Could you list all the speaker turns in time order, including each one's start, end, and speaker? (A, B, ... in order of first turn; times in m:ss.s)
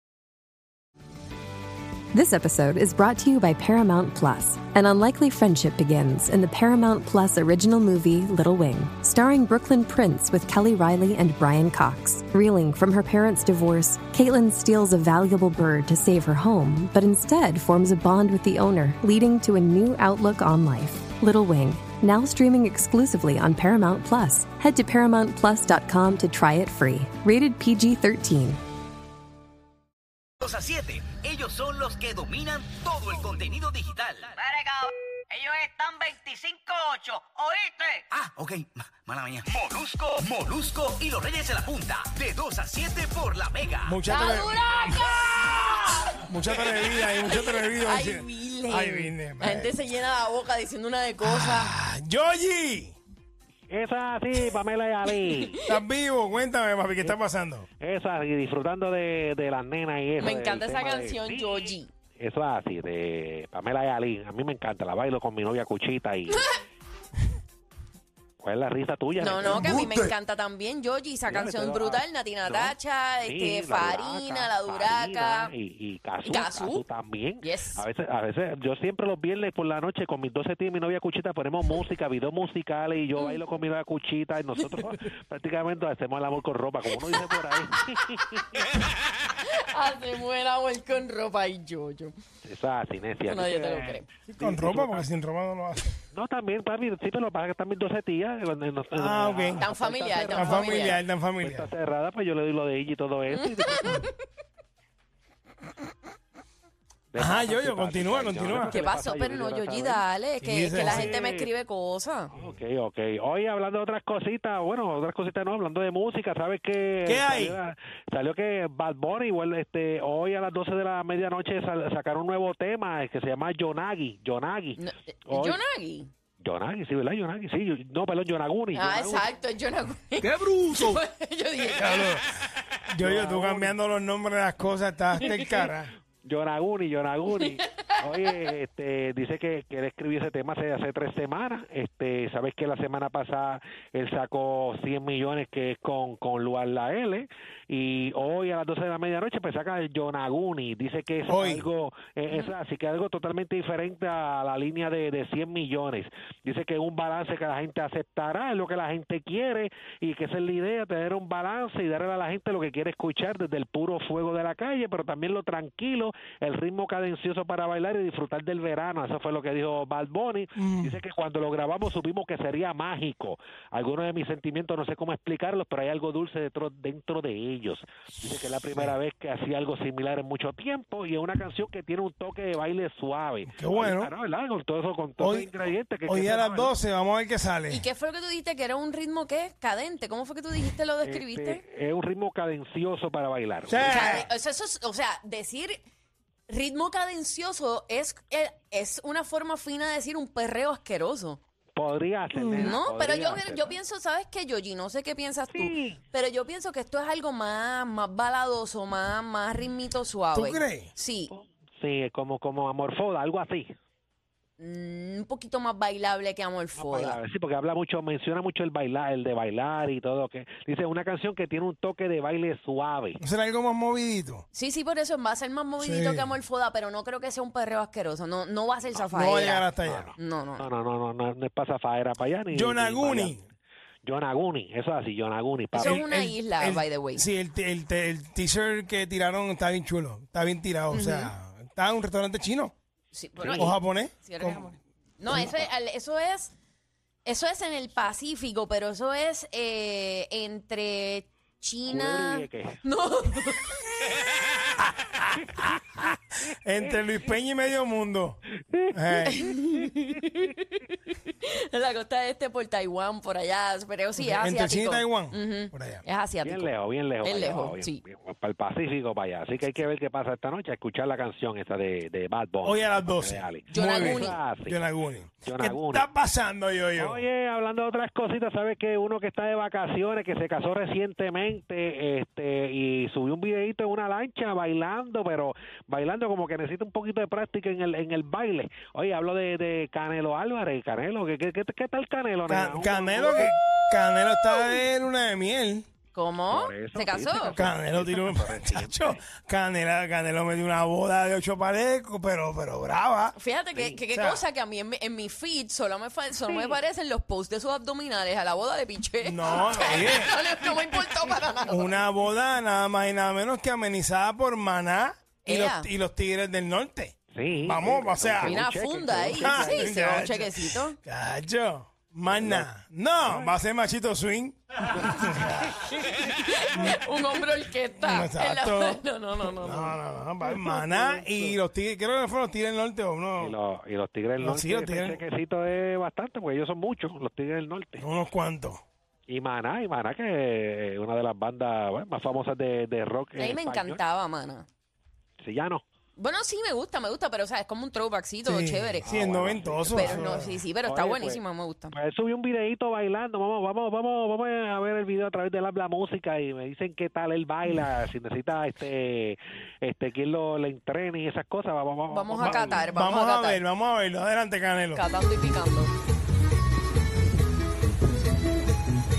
0:02.1-0:28.6 A
0:30.4-0:34.4 B
0:34.3-0:38.0 C
0:38.1-0:43.9 B
0:43.8-0:45.1 D
0:44.0-0:51.7 E
0:46.1-0:49.8 D
0:51.2-0:53.0 D
0:53.7-0:55.6 F
0:55.6-0:57.6 D
0:57.8-1:06.5 F
1:00.2-1:01.9 E
1:08.4-1:09.9 F
1:09.2-1:15.5 E
1:09.5-1:10.1 D
1:11.3-1:28.6 F
1:16.2-1:16.8 E
1:17.4-1:17.8 E
1:23.2-1:23.4 E
1:29.3-1:32.1 E
1:32.4-1:35.1 F
1:33.3-1:34.1 E
1:34.3-1:36.0 D
1:36.1-1:44.1 F
1:38.9-1:39.7 D
1:39.6-1:41.0 E
1:40.3-1:41.7 D
1:43.3-1:44.2 E
1:47.1-1:50.0 F
1:47.2-1:48.8 D
1:48.6-1:52.3 E
1:50.4-1:51.2 D
1:50.8-1:51.5 F
1:52.3-2:05.6 F
1:57.0-1:57.6 D
2:04.8-2:06.1 E
2:06.4-2:09.3 F
2:08.7-2:12.1 E
2:10.2-2:11.0 D
2:11.8-2:12.3 D
2:12.9-2:15.9 D
2:13.0-2:13.8 F
2:16.2-3:06.7 F
2:17.4-2:18.3 E
2:31.3-2:31.7 D
2:50.6-2:51.0 D
3:03.4-3:04.1 D
3:05.2-3:07.8 D
3:07.7-3:11.6 E
3:11.0-3:14.2 F
3:13.7-3:14.3 D
3:13.8-3:15.8 E
3:16.5-3:21.4 E
3:21.8-3:23.8 F
3:22.3-3:22.8 D
3:22.6-3:31.3 E
3:25.5-3:26.0 F
3:30.3-3:30.9 D
3:31.3-3:33.7 F
3:34.6-3:37.2 E
3:36.8-3:43.2 F
3:43.2-3:44.4 D
3:44.5-3:50.7 E
3:45.8-3:46.3 D
3:49.1-3:50.1 D
3:49.8-3:53.4 F
3:52.5-3:53.4 D
3:54.0-3:56.0 F
3:55.7-3:57.2 E
3:55.7-4:02.7 D
4:00.9-4:01.3 E
4:03.1-4:06.5 E
4:03.4-4:03.8 F
4:03.5-4:04.7 D
4:07.2-4:14.0 E
4:11.8-4:12.8 F
4:16.6-4:19.5 D
4:19.3-4:28.0 E
4:24.2-4:26.0 D
4:26.4-4:34.8 F
4:32.6-4:37.2 D
4:33.7-4:34.4 E
4:35.4-4:36.1 F
4:37.0-4:53.5 F
4:52.5-4:55.8 D
4:56.1-4:57.6 E
4:56.5-4:59.2 F
4:57.5-5:03.3 D
5:03.3-5:12.0 E
5:04.1-5:04.4 D
5:06.4-5:06.8 F
5:09.2-5:10.3 D
5:09.7-5:10.2 F
5:11.7-5:18.6 D
5:15.4-5:15.9 E
5:17.3-5:20.0 F
5:18.4-5:21.0 E
5:19.4-5:25.9 D
5:22.3-5:22.7 F
5:23.2-5:23.6 F
5:24.9-5:26.2 F
5:25.8-5:30.0 E
5:28.0-5:29.0 D
5:29.6-5:33.6 D
5:30.4-5:31.6 F
5:33.4-5:38.1 F
5:34.4-5:35.2 D
5:38.0-5:38.8 D
5:39.3-5:44.0 F
5:43.4-5:44.7 E
5:45.4-5:45.8 F
5:46.2-5:49.1 E
5:48.4-5:50.6 D
5:49.0-6:02.9 F
5:49.9-5:51.9 E
6:02.1-6:03.6 E
6:02.3-6:05.0 D
6:04.9-6:05.9 E